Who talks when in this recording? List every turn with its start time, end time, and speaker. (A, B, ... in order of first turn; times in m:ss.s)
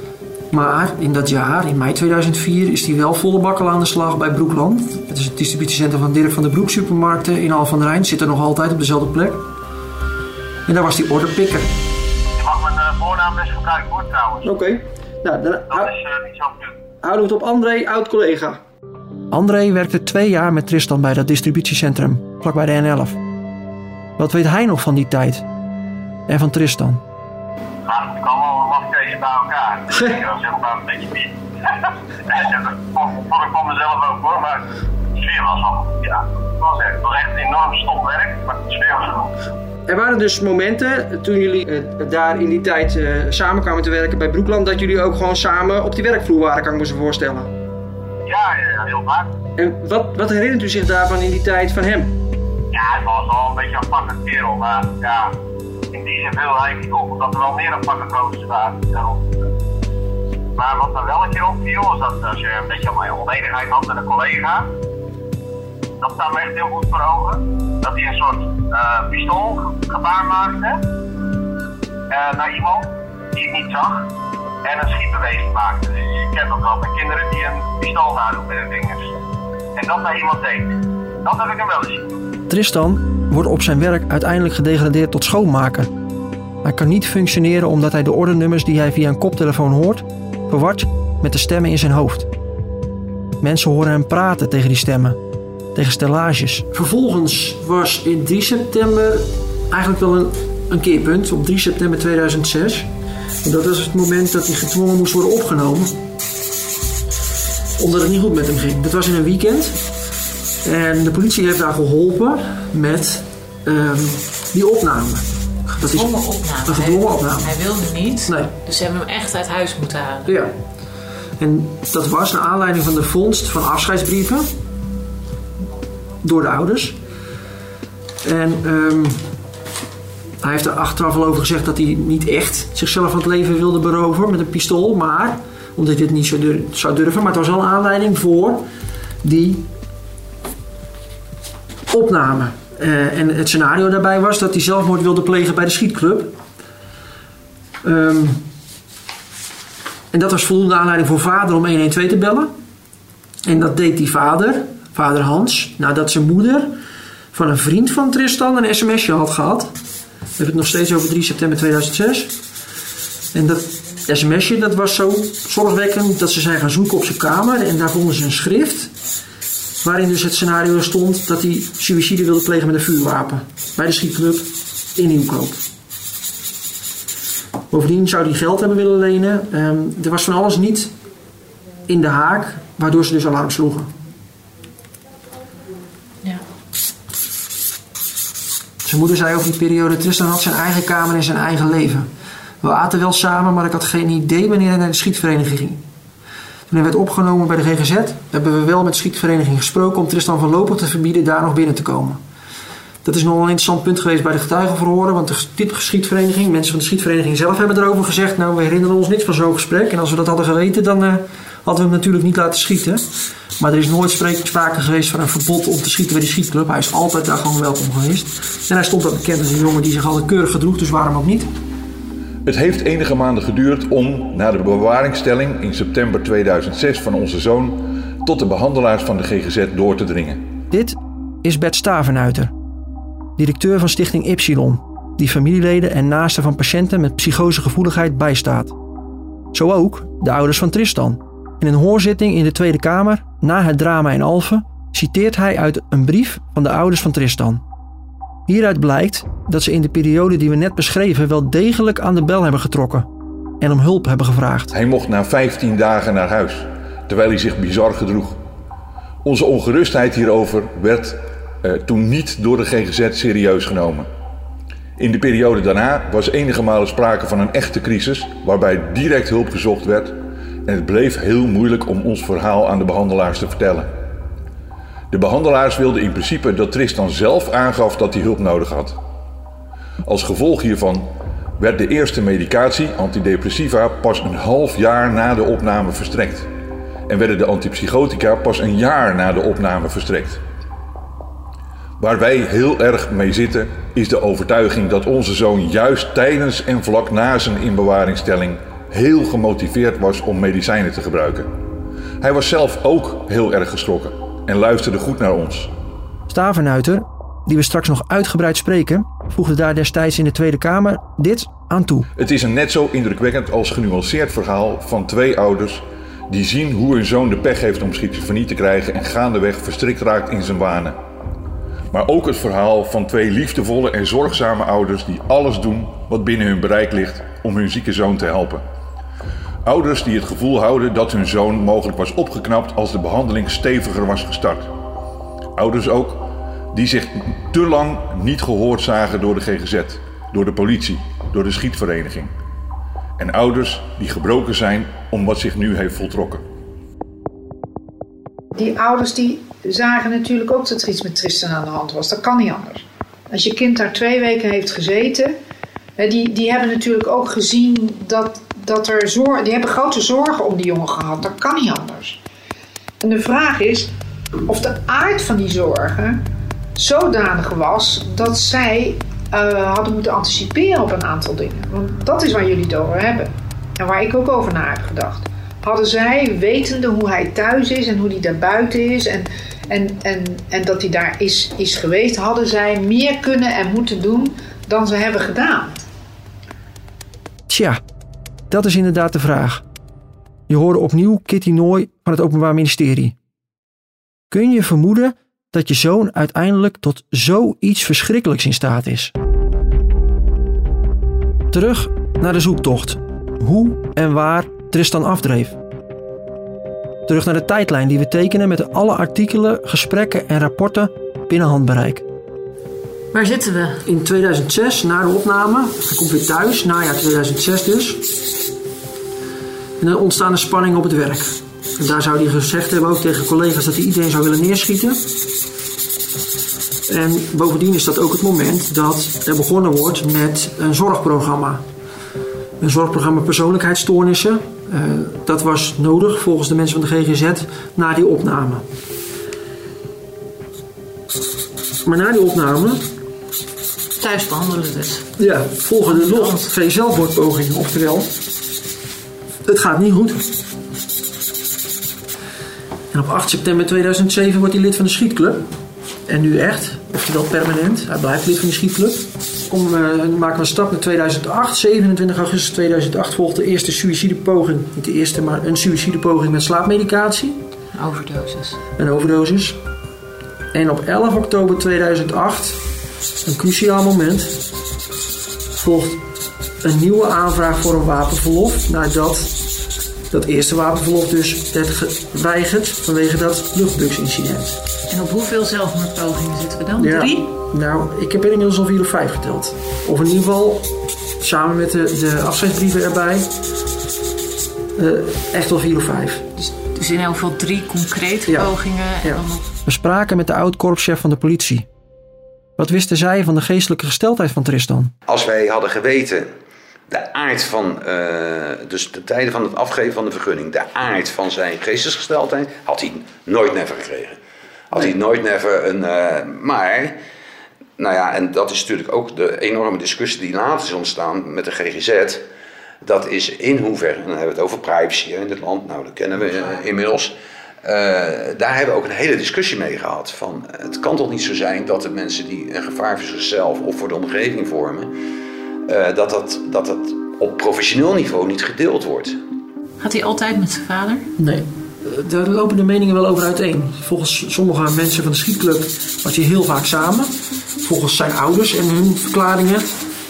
0:00.5-0:09.4 A
0:10.7-0:11.7 A
0:12.4-0:14.5 B
0:14.4-0:15.9 A
0:15.7-0:16.7 B
0:17.0-0:18.6 A
0:19.3-0:23.2 A
0:24.2-0:25.5 A
0:26.3-0:27.0 A
0:27.8-0:39.3 B
0:29.9-0:30.2 A
0:39.9-0:47.5 A
0:48.2-0:49.4 B
0:49.6-0:52.2 A
0:52.7-0:55.3 B
0:55.9-0:59.5 B
1:00.6-1:04.7 B
1:06.0-1:10.8 B
1:12.1-1:14.1 B
1:14.6-1:19.2 B
1:19.8-1:22.1 B
1:22.5-1:25.9 A
1:26.6-1:32.3 A
1:33.4-1:35.2 A
1:35.8-1:42.9 A
1:43.4-1:46.0 A
1:47.8-1:49.8 A
1:50.6-1:56.1 A
1:55.8-2:00.4 C
1:56.7-1:57.6 A
1:58.3-1:58.5 A
2:00.3-2:00.5 A
2:01.4-2:04.5 A
2:06.2-2:07.0 A
2:08.2-2:09.2 A
2:10.4-2:18.6 A
2:19.2-2:19.7 A
2:21.9-2:26.4 A
2:27.8-2:28.4 A
2:30.1-2:32.5 A
2:33.4-2:36.8 A
2:37.3-2:39.7 A
2:40.4-2:42.3 A
2:43.3-2:48.9 A
2:49.8-2:55.6 A
2:57.7-3:00.9 A
3:01.9-3:03.9 A
3:08.8-3:12.1 A
3:12.6-3:15.8 A
3:16.7-3:22.2 A
3:23.0-3:33.0 A
3:33.6-3:41.5 A
3:42.4-3:50.4 D
3:50.7-3:52.5 A
3:53.4-3:58.8 A
3:59.5-4:07.6 A
4:08.5-4:13.1 A
4:13.6-4:14.7 A
4:14.7-4:18.4 D
4:19.2-4:24.1 D
4:25.0-4:33.9 D
4:35.1-4:39.0 D
4:40.1-4:46.5 D
4:47.1-4:50.4 D
4:52.0-5:01.5 D
5:02.2-5:05.7 D
5:06.3-5:12.1 A
5:12.2-5:21.0 D
5:21.9-5:28.6 D
5:29.7-5:34.7 D
5:35.6-5:42.3 D
5:43.2-5:46.4 D
5:48.6-5:55.4 E
5:56.0-6:02.2 E
6:03.0-6:03.9 E
6:04.5-6:06.2 E
6:06.8-6:25.8 E
6:27.5-6:27.8 A
6:28.5-6:29.6 A
6:30.5-6:33.2 A
6:34.3-6:39.1 A
6:41.5-6:45.6 A
6:47.1-6:52.0 A
6:53.1-6:53.8 C
6:53.8-6:58.1 A
6:59.8-7:05.0 A
7:06.9-7:11.6 A
7:12.6-7:18.6 A
7:21.8-7:22.8 A
7:24.0-7:25.1 C
7:25.2-7:28.1 A
7:25.9-7:26.5 C
7:29.4-7:30.3 A
7:32.9-7:35.5 A
7:36.1-7:47.4 A
7:47.7-7:48.6 C
7:48.8-7:49.6 A
7:50.5-7:52.6 A
7:53.2-7:54.4 A
7:55.6-7:56.0 A
7:56.6-7:59.4 A
8:00.1-8:04.6 A
8:04.9-8:07.3 C
8:06.8-8:13.3 A
8:14.8-8:16.2 A
8:16.4-8:19.5 C
8:18.3-8:21.7 A
8:22.6-8:24.9 A
8:25.1-8:26.3 F
8:26.9-8:34.2 F
8:34.7-8:37.0 F
8:37.8-8:42.2 F
8:42.8-8:54.9 F
8:55.7-8:59.2 F
8:59.8-9:01.1 C
9:01.2-9:09.7 A